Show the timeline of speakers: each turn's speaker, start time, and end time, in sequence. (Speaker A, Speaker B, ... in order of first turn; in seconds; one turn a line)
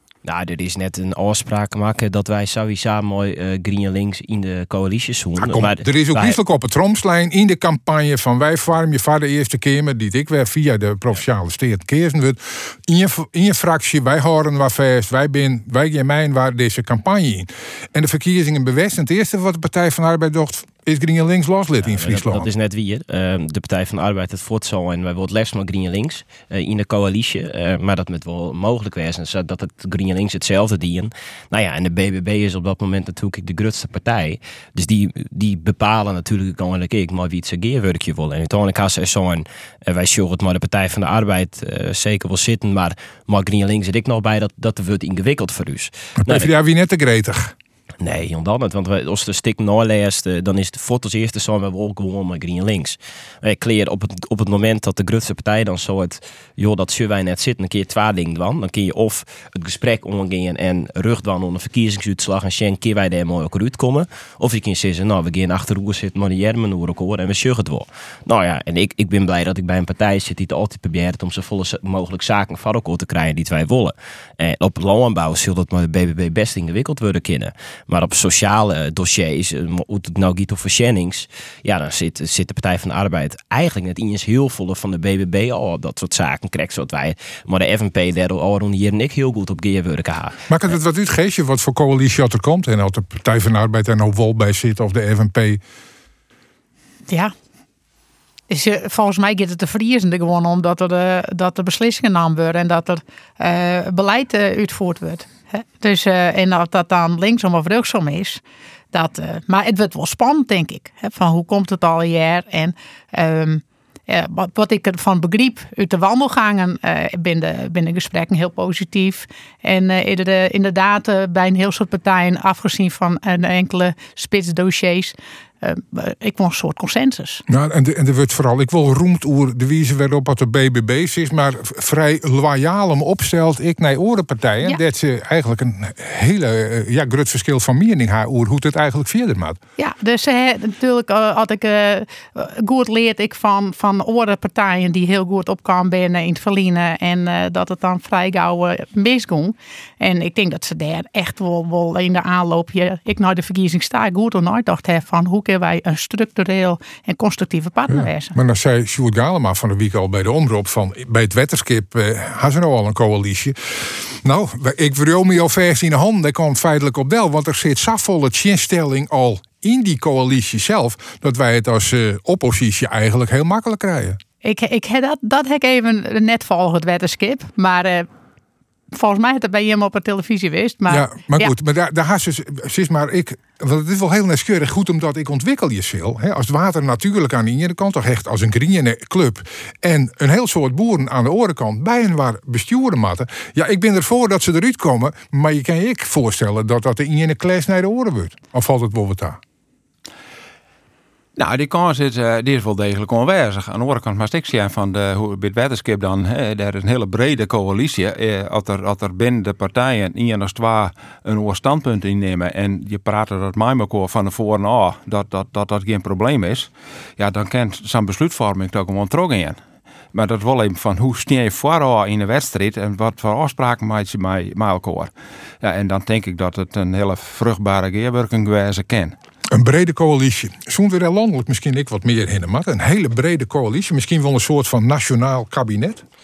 Speaker A: 0.2-6.4
Speaker B: 5.4-22.5
Speaker A: 21.8-46.5
Speaker B: 46.2-47.5
Speaker A: 48.0-90.3
Speaker B: 90.5-95.6
Speaker C: 98.5-108.4
Speaker C: 108.9-127.4
Speaker B: 127.5-139.6
Speaker C: 139.8-158.3
Speaker B: 157.9-174.2
Speaker C: 174.4-178.1
Speaker C: 178.9-181.5
Speaker B: 180.9-199.4
Speaker D: 201.4-219.6
Speaker D: 220.1-229.2
Speaker B: 229.5-236.0